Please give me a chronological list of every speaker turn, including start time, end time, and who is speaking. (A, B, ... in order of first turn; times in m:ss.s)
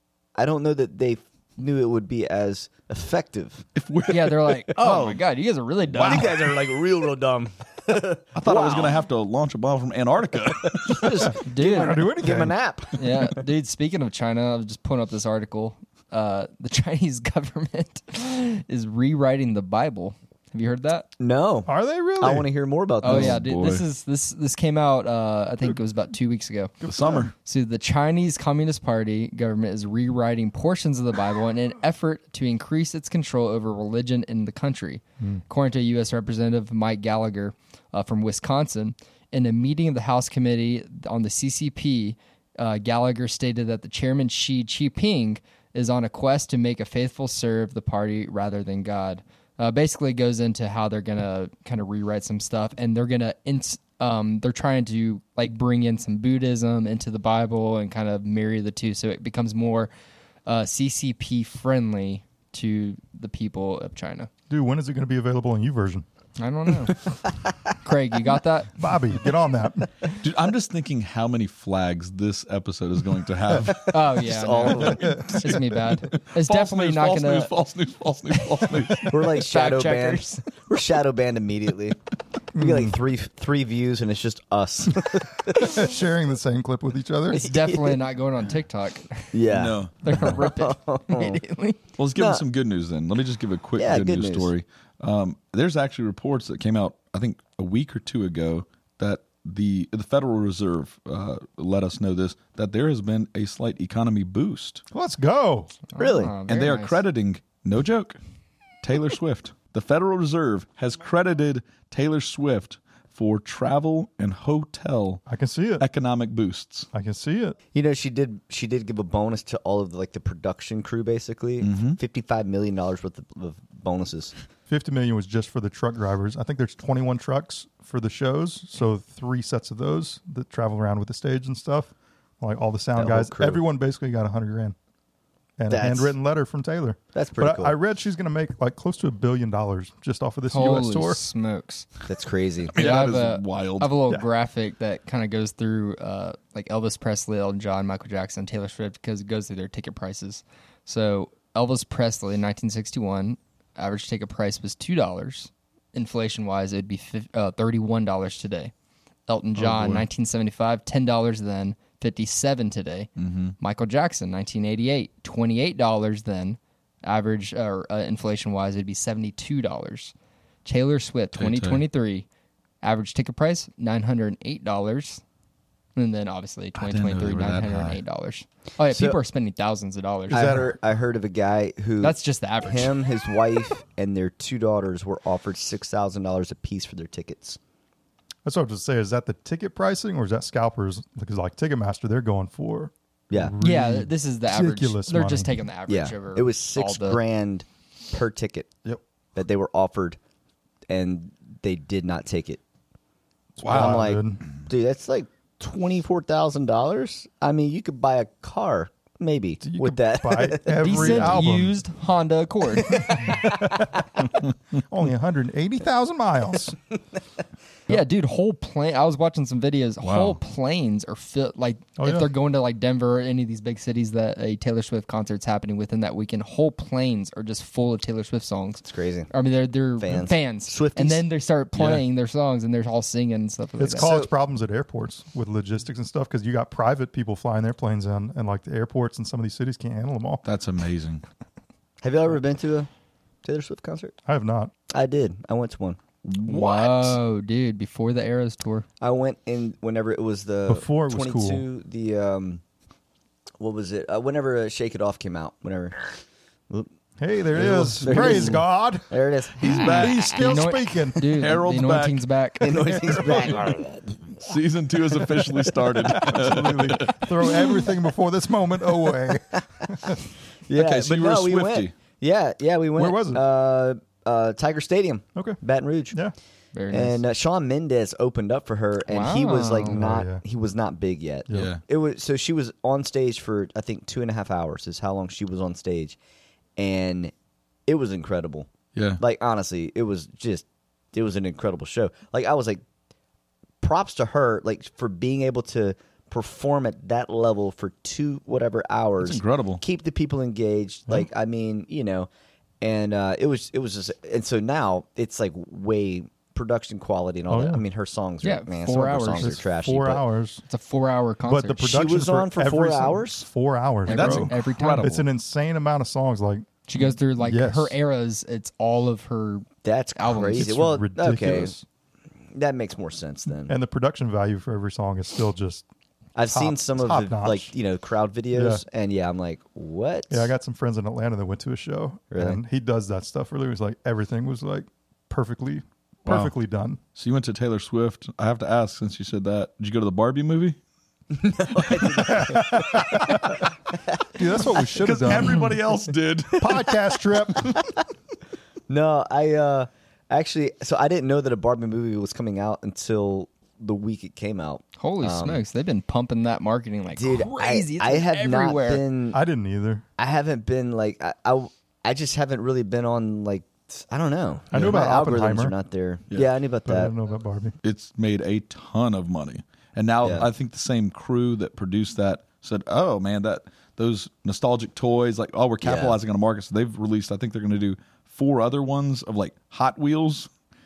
0:00.4-0:03.6 A
0:03.8-0:05.2 B
0:04.1-0:06.4 C
0:04.8-0:05.0 A
0:05.9-0:09.0 A
0:06.0-0:06.4 B
0:08.4-0:11.4 B
0:10.6-0:13.0 A
0:11.4-0:12.1 C
0:11.6-0:12.5 D
0:13.0-0:21.1 C
0:21.2-0:23.4 A
0:21.7-0:22.5 D
0:23.0-0:26.8 C
0:23.0-0:23.8 B
0:26.8-0:27.3 D
0:26.8-0:27.3 B
0:27.4-0:59.9 C
1:00.4-1:04.3 C
1:04.5-1:06.1 D
1:06.4-1:07.2 C
1:07.8-1:08.8 C
1:08.8-1:09.9 D
1:10.2-1:14.0 B
1:13.7-1:17.5 C
1:13.9-1:15.3 A
1:14.8-1:15.6 D
1:15.2-1:19.2 B
1:18.9-1:20.4 C
1:19.0-1:22.0 A
1:22.5-1:23.0 D
1:22.6-1:25.8 A
1:25.5-1:27.5 D
1:27.3-1:29.4 C
1:27.3-1:28.0 A
1:29.3-1:31.4 A
1:29.5-1:30.4 B
1:30.0-1:31.8 C
1:32.0-1:44.8 B
1:32.1-1:32.4 A
1:33.8-1:34.5 A
1:44.9-1:45.8 D
1:45.9-1:47.0 C
1:46.0-1:46.3 A
1:46.5-1:48.2 B
1:48.8-1:55.2 B
1:55.3-1:55.8 D
1:55.8-1:56.9 B
1:56.9-1:57.6 D
1:57.7-2:04.3 A
2:01.6-2:02.0 B
2:04.7-2:14.8 D
2:13.0-2:13.6 A
2:15.6-2:21.2 D
2:15.7-2:16.1 A
2:17.1-2:17.8 A
2:20.5-2:21.9 C
2:22.1-2:22.8 A
2:22.7-2:23.9 B
2:22.8-2:38.7 C
2:39.3-2:50.1 C
2:39.6-2:40.1 B
2:43.2-2:43.6 B
2:50.6-2:52.2 C
2:51.4-2:51.8 B
2:52.8-2:55.2 C
2:56.0-3:00.6 C
2:56.8-2:58.0 B
2:58.9-2:59.2 A
3:00.3-3:00.8 D
3:00.3-3:07.6 A
3:02.0-3:02.9 C
3:08.4-3:15.5 D
3:13.3-3:13.6 A
3:13.6-3:17.2 C
3:15.9-3:18.7 A
3:19.4-3:20.2 A
3:20.9-3:22.6 A
3:23.6-3:24.4 D
3:23.6-3:24.1 B
3:23.7-3:31.3 A
3:29.6-3:31.8 D
3:30.8-3:33.5 C
3:32.9-3:34.0 A
3:33.3-3:36.8 D
3:37.9-3:54.1 C
3:40.0-3:40.4 B
3:42.0-3:42.3 D
3:48.8-3:49.3 A
3:50.0-3:51.2 A
3:51.7-3:52.0 B
3:53.8-4:00.4 D
3:54.0-3:54.3 A
4:00.4-4:01.2 B
4:02.0-4:02.9 A
4:03.4-4:04.1 A
4:04.2-4:04.7 D
4:04.9-4:06.0 A
4:06.2-4:07.2 B
4:06.4-4:08.9 C
4:09.0-4:12.6 A
4:10.7-4:11.6 D
4:13.6-4:16.0 A
4:17.2-4:19.1 D
4:17.5-4:20.4 A
4:19.6-4:20.4 B
4:19.7-4:21.2 D
4:20.1-4:23.3 C
4:21.3-4:22.2 B
4:22.6-4:24.3 A
4:23.2-4:23.4 D
4:24.4-4:27.5 B
4:26.1-4:30.2 D
4:29.8-4:30.1 A
4:30.7-4:36.2 A
4:30.7-4:31.9 B
4:33.0-4:33.4 D
4:36.7-4:37.2 C
4:36.9-4:46.2 A
4:39.1-4:40.0 C
4:39.9-4:40.4 D
4:41.5-4:41.7 D
4:41.5-4:41.8 B
4:46.8-4:47.3 A
4:47.9-4:52.8 A
4:48.9-4:49.2 B
4:53.8-5:02.3 A
4:59.2-4:59.8 B
5:02.8-5:10.2 A
5:07.5-5:07.8 D
5:08.4-5:09.6 C
5:09.4-5:10.6 D
5:10.7-5:11.9 C
5:11.4-5:17.9 D
5:11.8-5:13.5 A
5:14.1-5:15.1 C
5:14.1-5:15.2 B
5:16.9-5:20.8 C
5:19.8-5:21.8 A
5:20.6-5:21.8 D
5:22.5-5:23.8 A
5:23.7-5:25.8 D
5:26.4-5:30.5 A
5:26.5-5:27.7 D
5:28.5-5:28.8 D
5:30.3-5:37.0 D
5:32.3-5:32.6 A
5:36.2-5:36.5 B
5:37.1-5:40.8 B
5:41.3-5:43.5 A
5:42.1-5:43.6 D
5:44.1-5:44.8 A
5:44.3-5:45.8 D
5:44.8-5:46.8 B
5:46.6-5:47.8 D
5:47.6-5:48.0 A
5:48.9-5:55.6 A
5:55.0-5:59.0 C
5:57.2-5:59.4 A
5:59.3-6:00.0 D
6:00.2-6:07.1 A
6:04.7-6:05.7 D
6:04.7-6:05.0 B
6:06.8-6:07.7 D
6:07.8-6:20.5 B
6:10.2-6:10.5 A
6:15.8-6:16.2 A